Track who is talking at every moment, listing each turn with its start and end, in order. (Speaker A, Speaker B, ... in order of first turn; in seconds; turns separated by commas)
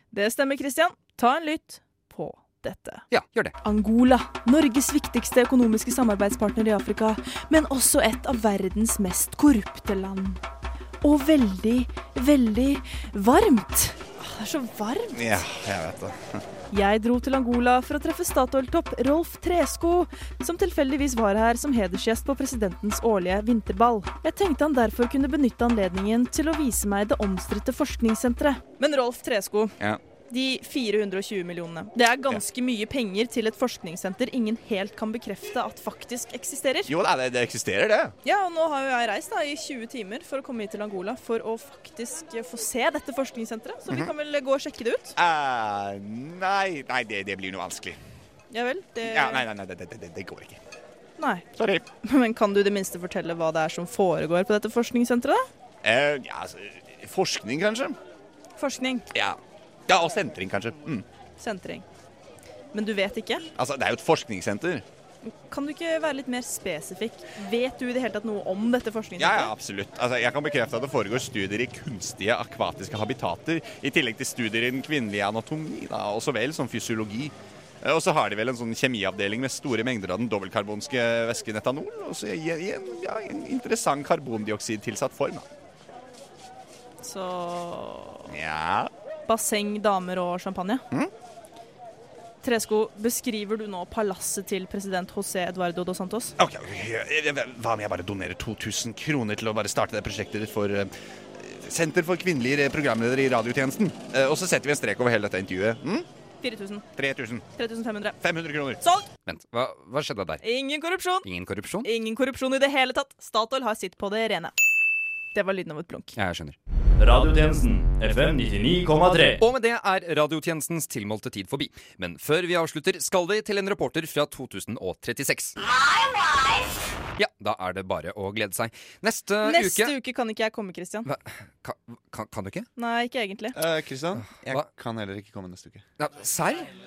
Speaker A: 0.1-3.0, Speaker B: 3.1-3.5, Speaker A: 3.6-10.4, Speaker A: 11.0-15.6, Speaker C: 15.1-16.4, Speaker A: 16.7-29.7, Speaker A: 30.2-36.9, Speaker C: 36.9-38.1, Speaker A: 38.2-45.1, Speaker C: 45.2-48.0, Speaker A: 48.5-49.5, Speaker C: 49.0-50.6, Speaker A: 51.2-51.5, Speaker C: 51.6-51.9, Speaker A: 52.0-55.5, Speaker C: 55.8-58.0, Speaker A: 58.6-59.1, Speaker C: 59.1-61.0, Speaker A: 61.4-61.8, Speaker A: 62.7-63.5, Speaker C: 63.5-64.8, Speaker A: 65.2-69.5, Speaker C: 69.2-85.5, Speaker A: 87.0-88.3, Speaker C: 88.3-88.9, Speaker A: 89.3-90.8, Speaker A: 92.4-96.3, Speaker C: 96.4-106.1, Speaker A: 106.4-106.8, Speaker C: 106.9-107.5, Speaker A: 107.5-108.2, Speaker C: 108.2-108.8, Speaker A: 108.8-109.0, Speaker B: 109.2-110.5, Speaker A: 110.4-111.3, Speaker B: 111.2-111.9, Speaker A: 111.8-114.5, Speaker A: 115.3-116.1, Speaker B: 116.2-116.6, Speaker D: 117.0-119.4, Speaker B: 119.4-125.5, Speaker B: 127.2-129.9, Speaker A: 129.4-131.1, Speaker B: 131.0-132.7, Speaker A: 132.8-133.6, Speaker C: 133.5-135.8, Speaker B: 134.2-134.7, Speaker B: 136.0-136.7